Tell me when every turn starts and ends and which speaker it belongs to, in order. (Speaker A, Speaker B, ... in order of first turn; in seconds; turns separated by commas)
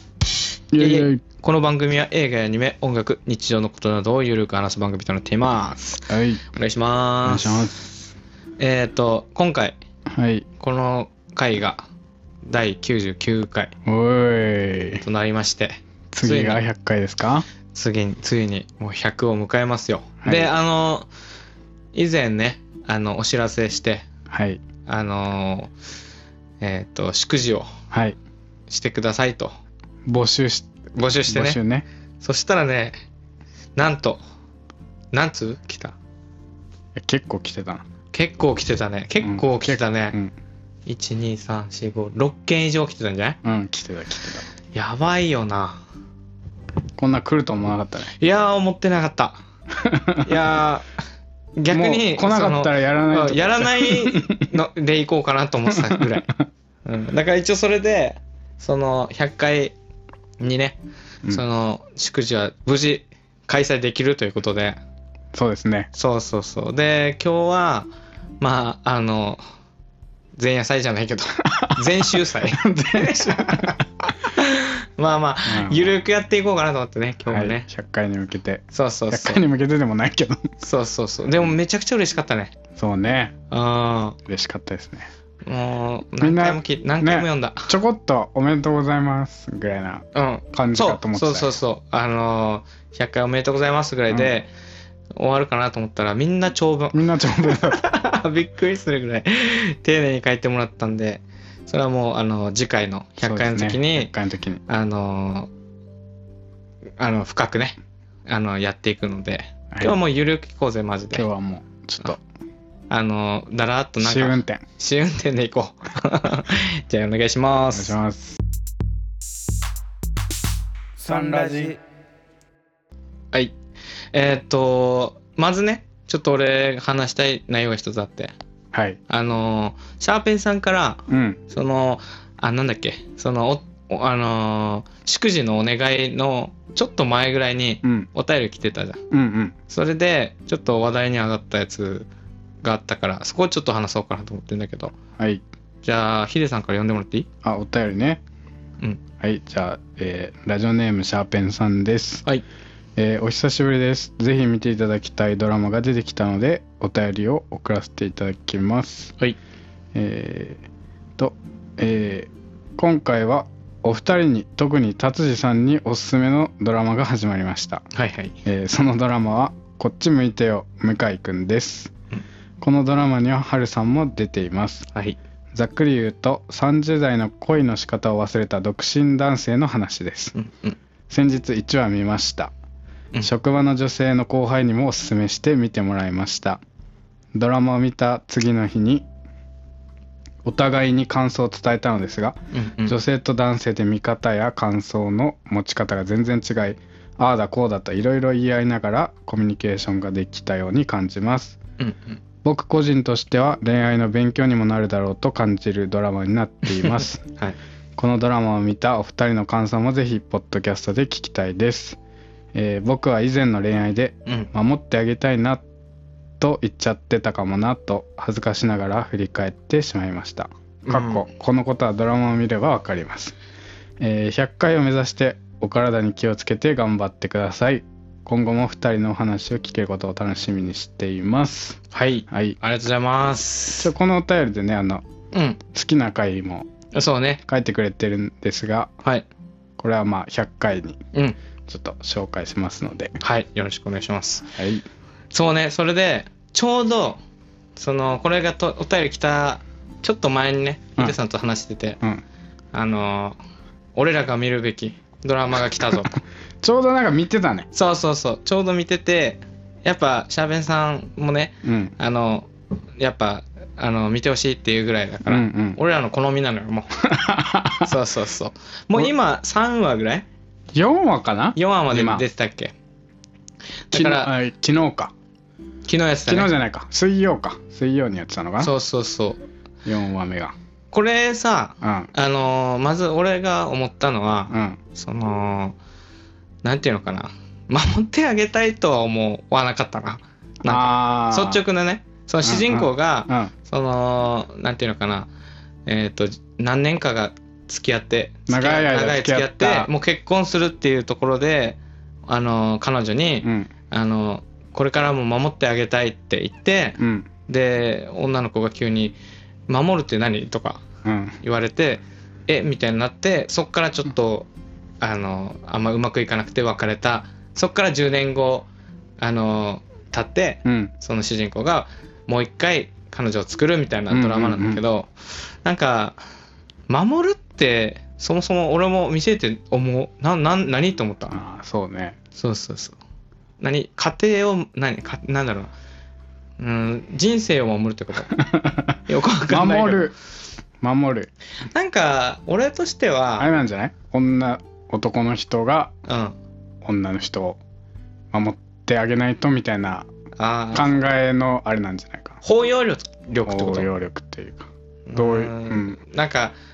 Speaker A: 0.7-1.2, Speaker B: 0.8-7.7, Speaker A: 6.1-6.4, Speaker A: 7.3-7.9, Speaker B: 8.6-9.8, Speaker A: 10.1-10.5, Speaker B: 10.6-11.8, Speaker B: 12.4-13.7, Speaker A: 13.9-15.0, Speaker B: 15.0-16.6, Speaker A: 16.1-17.5, Speaker B: 17.7-21.1, Speaker A: 20.2-20.5, Speaker B: 21.9-24.1, Speaker A: 24.3-24.6, Speaker B: 24.9-25.7, Speaker B: 26.6-27.7, Speaker A: 27.9-28.2, Speaker B: 28.7-29.5, Speaker A: 30.1-30.7, Speaker B: 31.0-31.6, Speaker A: 31.3-31.9, Speaker B: 32.2-33.0, Speaker B: 33.8-34.2, Speaker B: 35.1-36.0, Speaker A: 37.0-37.9, Speaker B: 38.1-40.2, Speaker A: 39.2-40.3, Speaker B: 40.9-43.4, Speaker A: 43.4-44.5, Speaker B: 44.7-45.8, Speaker A: 47.0-48.1, Speaker B: 48.2-49.4, Speaker A: 49.7-50.4, Speaker B: 50.2-50.9, Speaker B: 51.6-56.3, Speaker A: 51.7-54.5, Speaker A: 55.7-56.3, Speaker B: 56.9-59.8, Speaker B: 60.4-60.8, Speaker B: 61.3-64.8, Speaker A: 65.3-65.9, Speaker B: 66.0-67.9, Speaker B: 68.4-69.4, Speaker B: 70.4-77.7, Speaker A: 71.5-73.8, Speaker A: 75.5-76.0, Speaker A: 77.3-80.5, Speaker B: 78.7-79.4, Speaker B: 80.6-82.6, Speaker A: 82.8-83.3, Speaker B: 83.5-84.2, Speaker A: 84.3-85.1, Speaker B: 85.5-87.7, Speaker A: 86.2-91.6, Speaker B: 90.1-94.5, Speaker B: 95.2-104.1, Speaker A: 96.9-97.8, Speaker A: 103.2-104.6, Speaker B: 104.7-105.5, Speaker B: 107.0-111.2, Speaker A: 111.1-112.2, Speaker B: 112.9-118.0, Speaker A: 114.0-114.7, Speaker A: 117.7-118.4, Speaker B: 121.0-121.8, Speaker A: 121.1-121.6, Speaker B: 124.1-128.3, Speaker A: 128.7-129.0, Speaker B: 129.1-139.0, Speaker A: 131.1-131.4, Speaker A: 137.8-138.1, Speaker A: 139.1-139.6, Speaker B: 139.7-142.1, Speaker B: 142.6-145.0, Speaker B: 145.8-147.3, Speaker A: 147.4-148.2, Speaker A: 149.2-152.2, Speaker A: 153.0-159.1, Speaker A: 159.9-160.6, Speaker A: 161.2-167.8, Speaker B: 167.9-168.3, Speaker A: 168.4-171.9, Speaker A: 172.6-174.9, Speaker B: 174.9-175.2, Speaker A: 175.5-180.3, Speaker B: 180.3-180.8, Speaker A: 181.1-182.5, Speaker A: 183.2-186.6, Speaker A: 187.3-189.1, Speaker A: 190.4-201.6, Speaker B: 192.5-193.0, Speaker B: 201.8-202.2, Speaker A: 202.4-207.2, Speaker B: 206.8-207.6, Speaker A: 208.0-212.0, Speaker A: 212.5-215.6, Speaker A: 216.4-223.3, Speaker B: 220.9-221.2, Speaker A: 224.0-231.8, Speaker B: 231.9-233.9, Speaker A: 232.3-232.6, Speaker A: 233.8-235.0, Speaker B: 235.3-235.6, Speaker A: 235.7-236.7, Speaker B: 236.9-237.4, Speaker A: 237.5-238.9, Speaker A: 239.8-241.0, Speaker A: 241.7-243.2, Speaker B: 243.2-244.5, Speaker A: 244.6-244.8, Speaker B: 245.3-247.2, Speaker B: 247.8-252.0, Speaker B: 252.7-253.4, Speaker B: 253.9-256.2, Speaker A: 256.6-257.7, Speaker B: 257.7-267.0, Speaker A: 261.6-261.9, Speaker A: 265.3-265.8, Speaker A: 267.0-267.9, Speaker B: 267.8-270.3, Speaker A: 270.7-272.2, Speaker B: 271.6-272.7, Speaker B: 273.9-274.3, Speaker A: 273.9-275.1, Speaker B: 275.9-276.5, Speaker A: 276.3-278.7, Speaker B: 278.6-279.4, Speaker A: 279.9-280.6, Speaker B: 280.9-285.8, Speaker A: 281.8-282.1, Speaker A: 284.5-284.8, Speaker B: 286.6-295.3, Speaker A: 290.7-291.6, Speaker A: 292.4-293.5, Speaker B: 295.9-309.2, Speaker A: 298.5-299.9, Speaker A: 303.4-303.7, Speaker A: 307.0-307.3, Speaker B: 309.7-310.8, Speaker A: 311.0-311.4, Speaker B: 311.4-314.5, Speaker B: 315.0-318.7, Speaker B: 319.2-326.2, Speaker A: 320.6-320.9, Speaker A: 324.1-324.8, Speaker B: 326.9-331.4, Speaker A: 331.3-332.2, Speaker B: 332.4-333.0, Speaker B: 333.6-335.7, Speaker B: 336.6-338.4, Speaker A: 338.4-339.0, Speaker B: 339.1-340.1, Speaker A: 339.5-340.1, Speaker A: 340.8-341.3, Speaker B: 341.7-343.5, Speaker A: 343.4-345.9, Speaker B: 346.1-346.4, Speaker A: 346.8-347.6, Speaker A: 348.3-350.1, Speaker B: 350.4-350.9, Speaker A: 350.7-352.4, Speaker B: 352.4-353.9, Speaker A: 353.5-356.0, Speaker B: 355.1-356.6